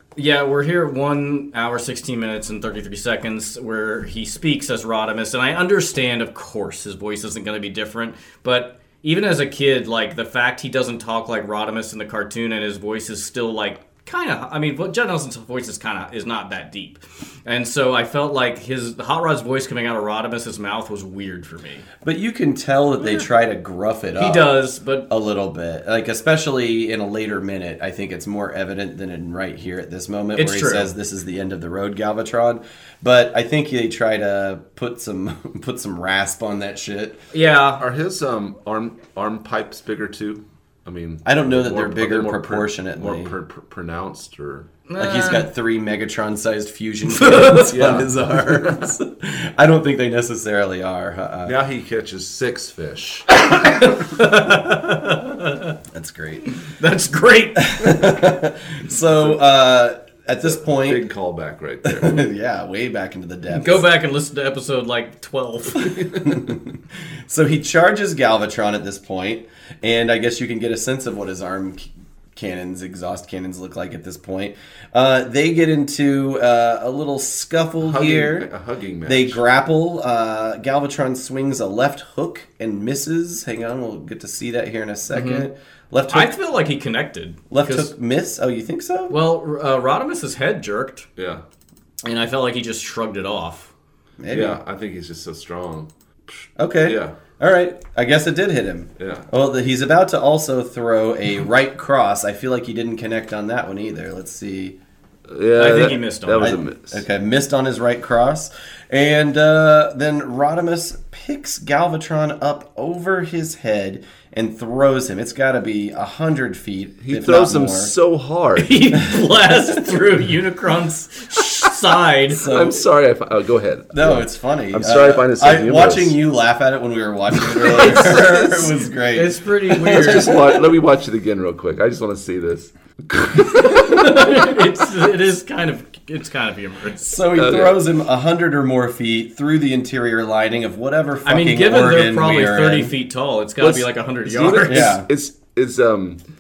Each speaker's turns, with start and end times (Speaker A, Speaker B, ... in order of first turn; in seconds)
Speaker A: 0.2-21.9, 24.2-25.1, 30.4-30.9, 37.3-37.8, 44.9-45.5, 47.1-47.7, 53.5-55.8, 56.4-58.0, 63.5-66.0, 85.1-85.5, 86.1-87.9, 89.1-91.1, 92.0-93.7, 105.6-106.6, 118.6-122.5, 127.7-130.4, 133.5-137.1, 141.2-145.0
Speaker B: 22.0-24.6, 25.1-37.2, 41.2-43.3, 45.0-51.5, 55.9-56.5, 57.6-61.1, 61.9-63.9, 66.2-66.8, 67.3-78.5, 79.1-86.3, 87.5-89.2, 94.2-94.6, 96.6-104.8, 106.4-117.9, 122.3-122.8, 123.9-130.7, 137.0-142.9, 144.7-145.1
Speaker C: 37.8-44.7, 47.5-48.8, 51.5-53.3, 60.6-62.3, 65.8-66.4, 77.8-79.4, 91.2-91.4, 94.3-95.9, 96.8-97.2, 99.0-99.3, 105.3-107.0, 117.0-119.0, 122.4-126.2, 127.4-128.3, 129.8-134.3, 137.3-137.8, 143.6-146.2